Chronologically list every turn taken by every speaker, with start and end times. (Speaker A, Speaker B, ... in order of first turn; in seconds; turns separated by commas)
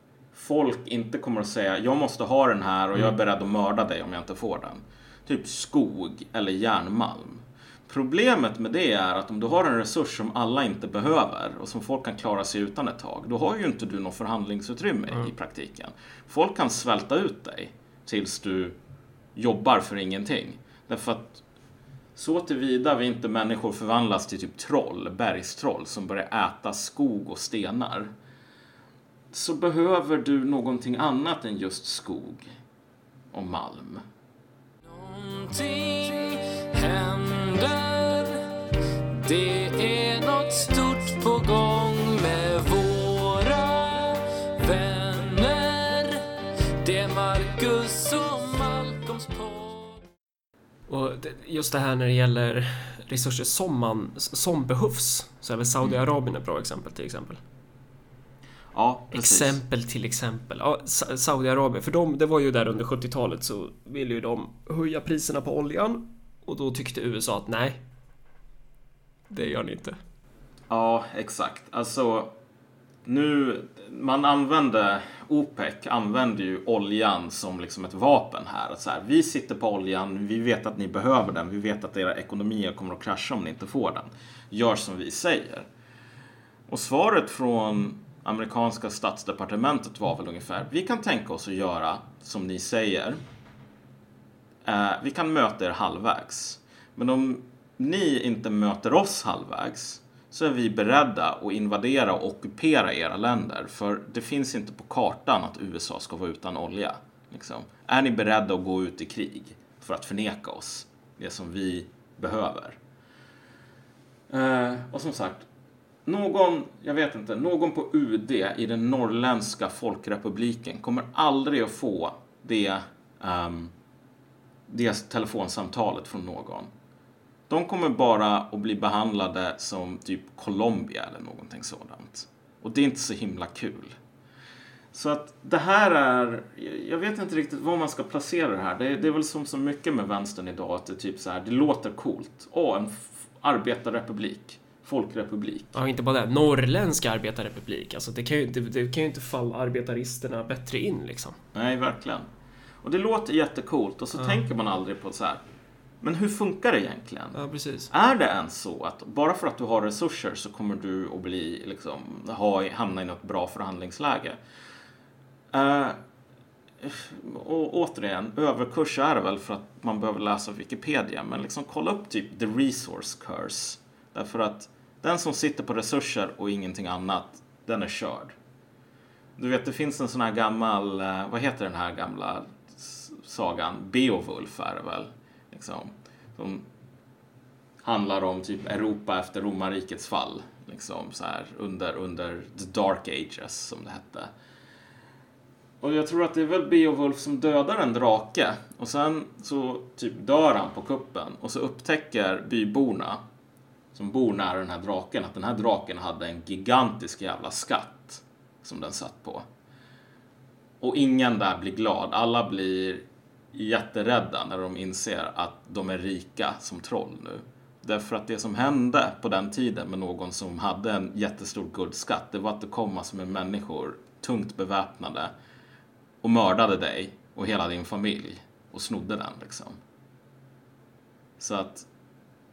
Speaker A: 0.3-18.8, Speaker A: 19.4-21.4, Speaker A: 22.1-28.1, Speaker A: 29.3-32.5, Speaker A: 33.3-34.0, Speaker B: 34.9-38.5, Speaker B: 39.2-46.2, Speaker B: 46.8-50.0, Speaker C: 50.9-57.4, Speaker A: 58.7-59.6, Speaker C: 59.1-67.8, Speaker C: 69.3-70.0, Speaker A: 70.7-72.3, Speaker A: 73.0-85.7, Speaker A: 86.7-93.2, Speaker A: 94.7-112.8, Speaker A: 114.3-115.5, Speaker A: 116.1-123.7, Speaker A: 124.7-126.7, Speaker A: 127.5-134.0, Speaker A: 134.9-145.7, Speaker C: 145.7-151.4, Speaker A: 151.6-152.3, Speaker A: 152.8-155.4, Speaker A: 156.0-157.4, Speaker C: 157.3-157.9, Speaker A: 157.9-164.4, Speaker A: 165.5-166.0, Speaker A: 166.8-178.3, Speaker A: 179.4-186.7, Speaker A: 187.8-194.3, Speaker A: 195.8-203.2, Speaker A: 203.9-209.5, Speaker A: 210.8-225.3, Speaker A: 226.2-229.8, Speaker A: 231.4-231.9